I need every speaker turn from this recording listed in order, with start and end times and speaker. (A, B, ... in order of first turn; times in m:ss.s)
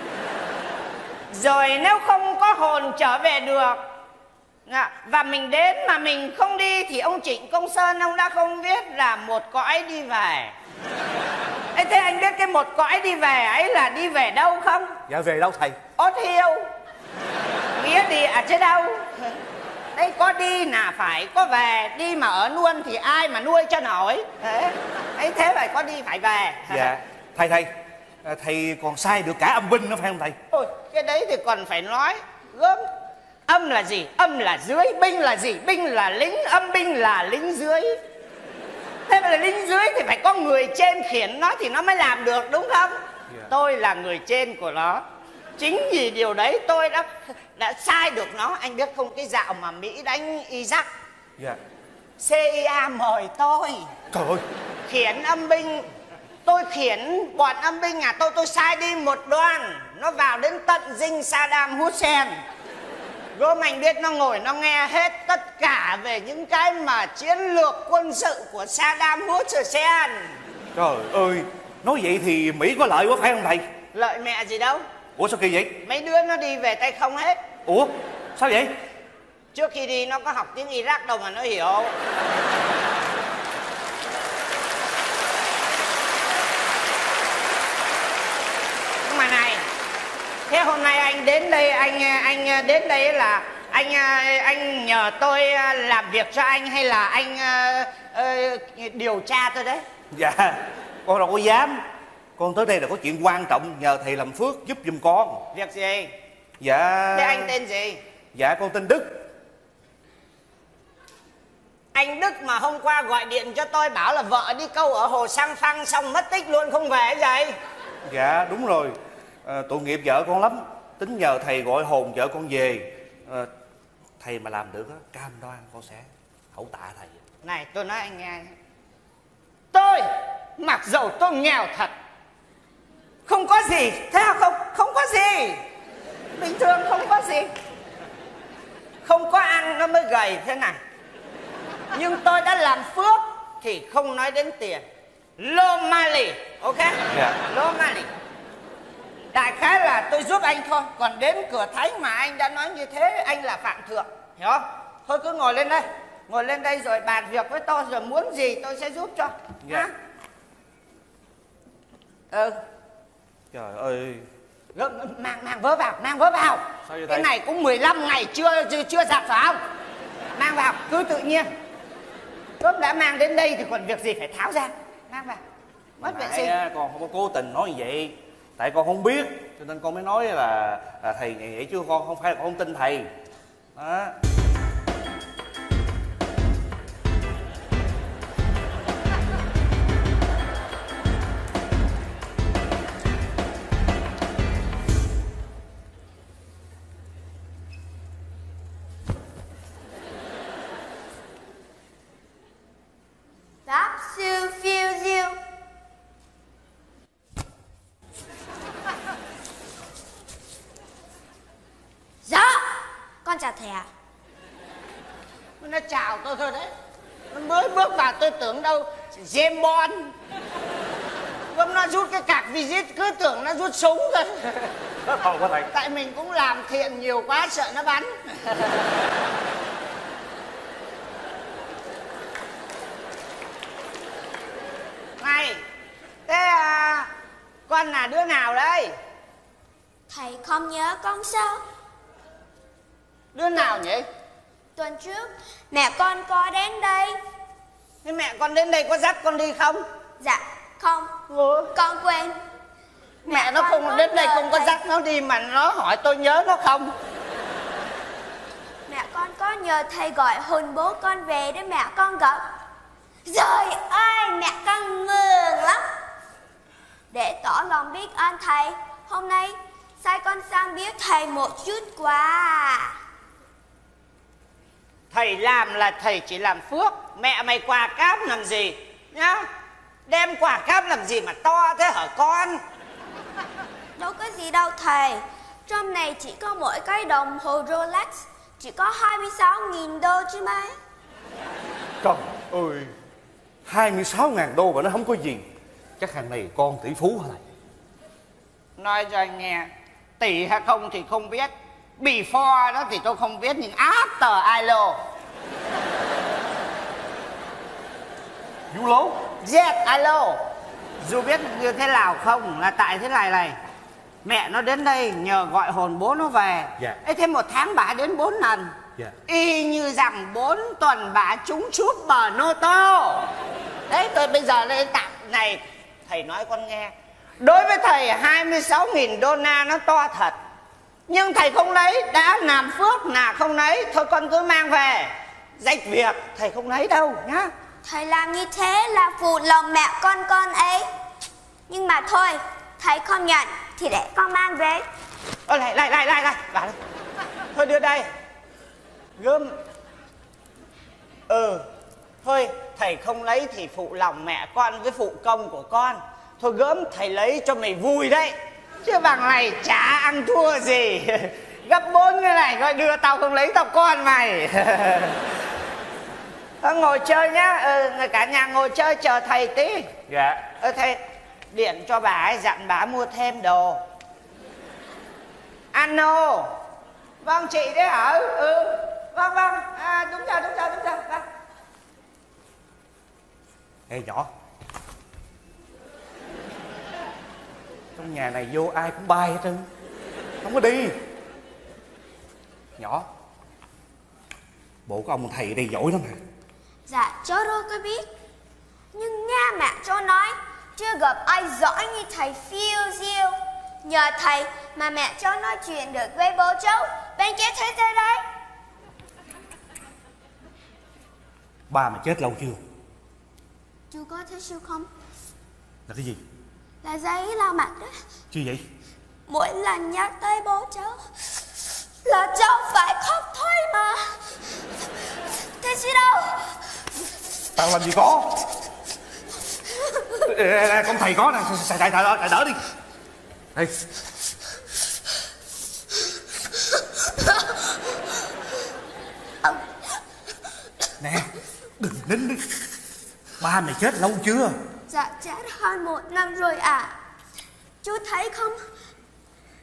0:01.3-0:03.8 A
0:04.7-0:10.5 A
0:11.7-0:14.9 A
0:15.1-0:15.8 B
0:16.0-0:16.7 A
0:17.8-0:19.1 A
0:19.9-0:26.9 A
0:26.7-0:27.7 B
0:28.2-0:30.4 B
0:30.5-0:32.9 A
0:33.5-0:38.0 A
0:39.1-0:43.0 A
0:43.5-0:45.0 A
0:45.6-0:50.9 A
0:52.2-0:53.9 A
0:54.1-0:54.4 B
0:54.9-0:55.9 A
0:56.4-1:02.3 A
1:03.4-1:10.3 A
1:10.7-1:13.6 B
1:13.9-1:14.8 A
1:15.2-1:15.8 B
1:15.8-1:17.4 A
1:17.6-1:18.7 B
1:19.5-1:21.9 A
1:29.0-1:29.6 A
1:30.5-1:39.8 A
1:40.1-1:41.8 B
1:42.4-1:45.4 B
1:45.5-1:46.1 A
1:46.6-1:47.5 B
1:47.1-1:48.0 A
1:48.3-1:49.2 B
1:51.9-1:57.5 A
1:58.1-2:03.5 B
2:04.2-2:07.2 B
2:07.4-2:08.5 A
2:09.7-2:11.9 A
2:13.3-2:15.6 A
2:16.4-2:17.5 A
2:19.0-2:20.8 A
2:21.9-2:24.8 A
2:25.4-2:28.1 A
2:29.3-2:39.9 A
2:42.3-2:42.6 A
2:43.5-2:44.3 B
2:44.7-2:49.6 A
2:46.9-2:47.3 B
2:50.4-2:51.5 A
2:52.6-2:55.4 A
2:56.0-2:56.5 A
2:56.0-3:03.1 B
3:03.8-3:04.2 B
3:23.7-3:25.4 C
3:32.2-3:33.9 C
3:35.6-3:36.7 A
3:37.3-3:40.1 A
3:41.5-3:44.4 A
3:45.0-3:45.7 B
3:45.7-3:48.6 A
3:55.2-3:55.6 A
3:56.3-3:57.1 A
3:57.7-3:58.9 A
4:00.1-4:01.6 C
4:03.3-4:04.0 A
4:04.8-4:07.2 C
4:08.0-4:09.8 A
4:10.2-4:11.2 C
4:11.3-4:11.7 A
4:11.7-4:12.4 C
4:13.2-4:14.8 C
4:13.2-4:16.9 A
4:18.9-4:22.4 C
4:23.2-4:25.8 C
4:27.1-4:33.0 C
4:35.1-4:39.5 A
4:40.1-4:42.6 A
4:44.0-4:50.8 C
4:52.0-4:52.9 B
4:53.6-4:55.4 B
4:56.0-4:57.4 B
4:58.8-5:05.0 A
5:08.7-5:09.3 B
5:09.4-5:10.4 A
5:11.0-5:13.6 A
5:14.2-5:18.7 A
5:19.3-5:23.3 A
5:23.9-5:30.4 A
5:31.1-5:37.5 A
5:37.8-5:40.9 C
5:41.7-5:44.8 C
5:45.5-5:46.7 A
5:47.5-5:48.0 A
5:49.2-5:49.5 A
5:51.3-5:51.6 A
5:52.2-6:05.1 A
6:06.6-6:09.9 A
6:10.1-6:10.5 B
6:10.6-6:11.0 A
6:11.5-6:13.8 A
6:15.7-6:16.5 A
6:17.2-6:21.2 A
6:23.9-6:24.3 B
6:28.0-6:29.7 B
6:30.4-6:31.0 B
6:32.8-6:33.0 B
6:34.9-6:36.2 B
6:36.9-6:38.1 C
6:38.9-6:48.2 C
6:51.7-6:52.6 B
6:53.9-6:54.9 C
6:55.9-6:56.2 B
6:56.8-6:58.0 C
6:58.3-6:58.6 B
6:59.3-7:01.0 C
7:02.0-7:04.1 C
7:05.6-7:06.5 C
7:07.6-7:08.4 B
7:10.2-7:12.6 B
7:21.0-7:22.5 B
7:23.4-7:24.6 B
7:24.9-7:27.0 C
7:27.8-7:28.6 C